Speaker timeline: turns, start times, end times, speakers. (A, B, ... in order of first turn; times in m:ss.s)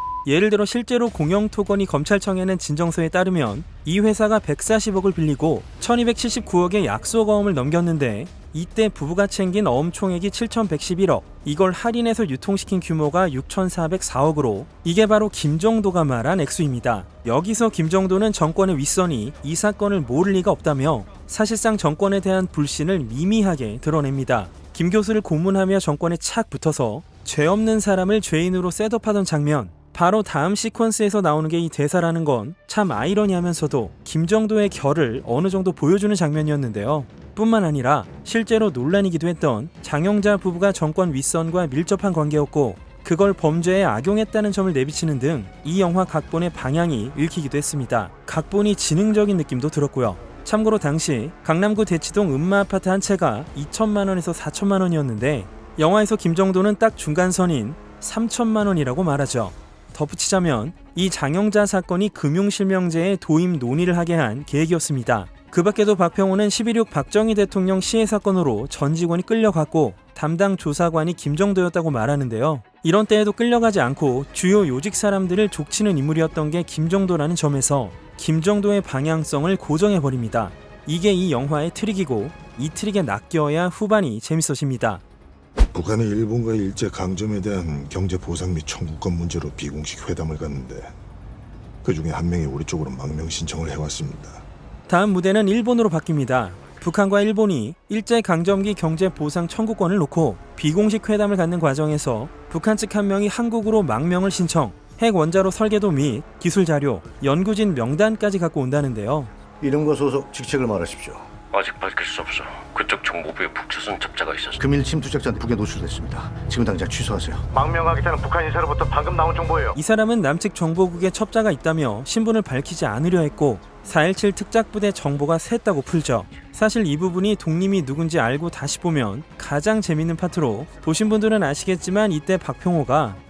0:00.2-1:25.0 A
1:25.7-1:30.9 B
1:31.8-1:34.4 B
1:34.9-1:49.3 A
1:49.6-1:51.2 C
1:51.5-1:54.6 D
1:54.6-1:57.5 C
1:57.5-1:59.7 E
1:59.7-2:13.2 A